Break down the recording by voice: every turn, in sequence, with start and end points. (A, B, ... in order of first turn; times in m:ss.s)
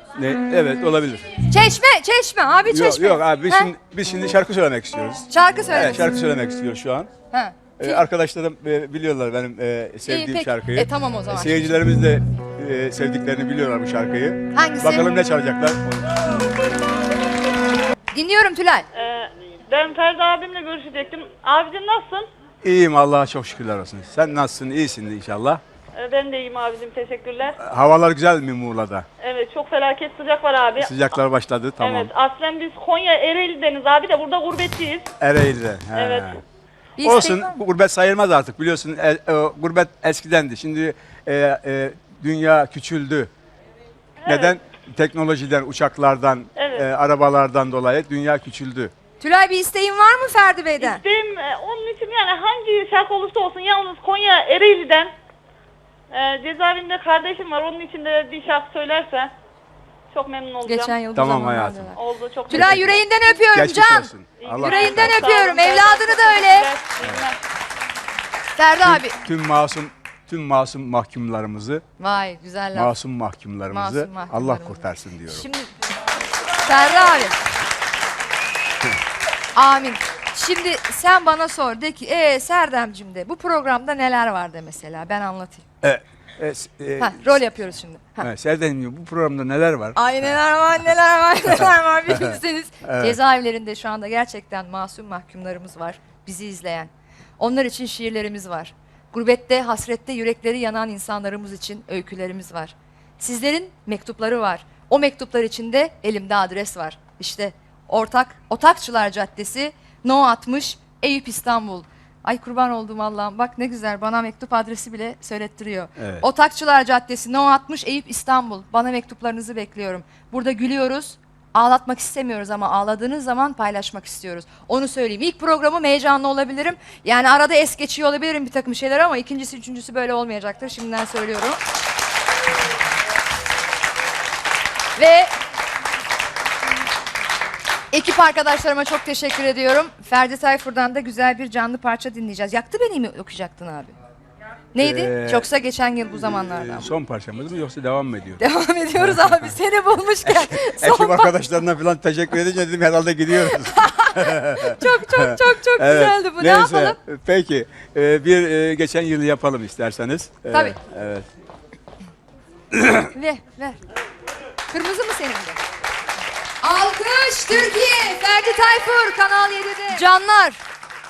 0:00.2-0:01.3 A
0:01.5-0:03.7 B
0:02.7-0:07.1 A
0:05.3-0:06.1 B
0:07.3-0:08.0 B
0:07.8-0:16.2 A
0:10.1-0:11.8 B
0:14.5-0:15.1 B
0:18.1-0:18.9 B
0:18.9-0:22.3 C
0:22.6-0:25.6 A
0:25.9-0:27.6 C
0:27.6-0:29.0 A
0:29.2-0:30.9 C
0:30.8-0:32.1 A
0:31.8-0:35.1 C
0:35.2-0:36.4 A
0:35.9-0:36.4 C
0:37.0-0:37.6 B
0:37.0-0:43.3 A
0:44.2-0:44.6 C
0:44.2-0:48.9 A
0:46.6-0:46.9 C
0:49.2-0:51.0 B
0:50.8-0:55.1 C
0:56.1-0:59.3 C
1:00.1-1:01.0 C
1:00.6-1:06.7 B
1:01.1-1:01.9 A
1:02.0-1:03.0 C
1:02.5-1:05.4 A
1:04.4-1:07.4 C
1:08.6-1:09.2 B
1:08.8-1:11.8 A
1:12.0-1:12.9 B
1:12.7-1:15.5 A
1:13.7-1:15.7 B
1:16.6-1:17.4 B
1:19.5-1:25.6 B
1:25.8-1:27.4 A
1:27.0-1:28.3 B
1:28.2-1:30.4 A
1:30.0-2:11.6 B
1:31.6-1:33.2 A
1:56.0-1:56.3 A
2:15.0-2:15.3 B
2:17.9-2:23.9 B
2:24.7-2:26.9 B
2:24.8-2:25.5 A
2:26.2-2:28.4 A
2:28.4-2:31.4 B
2:29.0-2:29.4 A
2:30.2-2:41.2 A
2:33.3-2:37.0 B
2:40.5-2:40.8 B
2:42.7-2:43.1 A
2:43.1-2:43.8 B
2:44.7-2:45.6 B
2:46.6-2:50.6 B